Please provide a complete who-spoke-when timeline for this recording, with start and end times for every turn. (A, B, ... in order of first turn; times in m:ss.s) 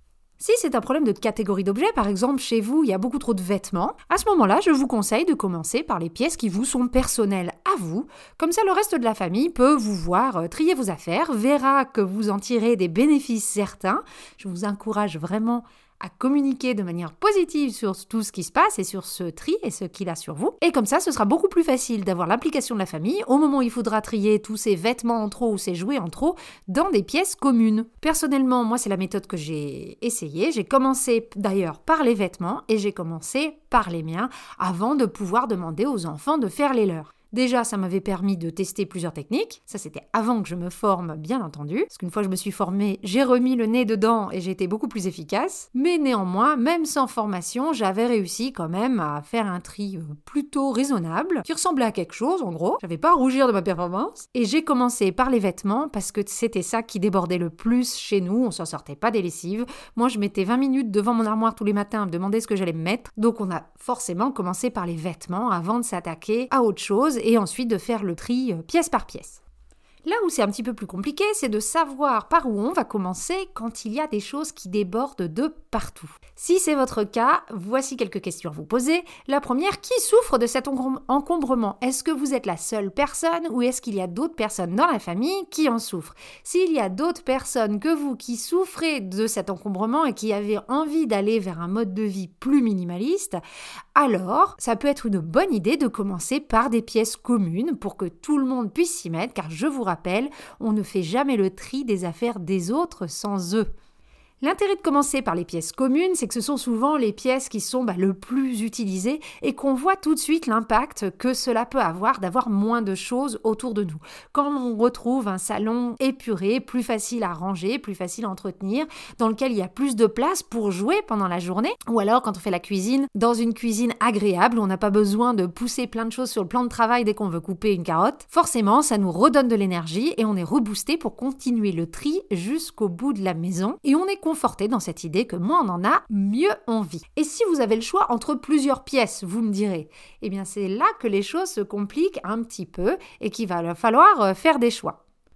0:00.4-1:09.4 A
1:10.0-1:33.4 A
1:33.9-1:43.7 A
1:44.4-2:25.0 A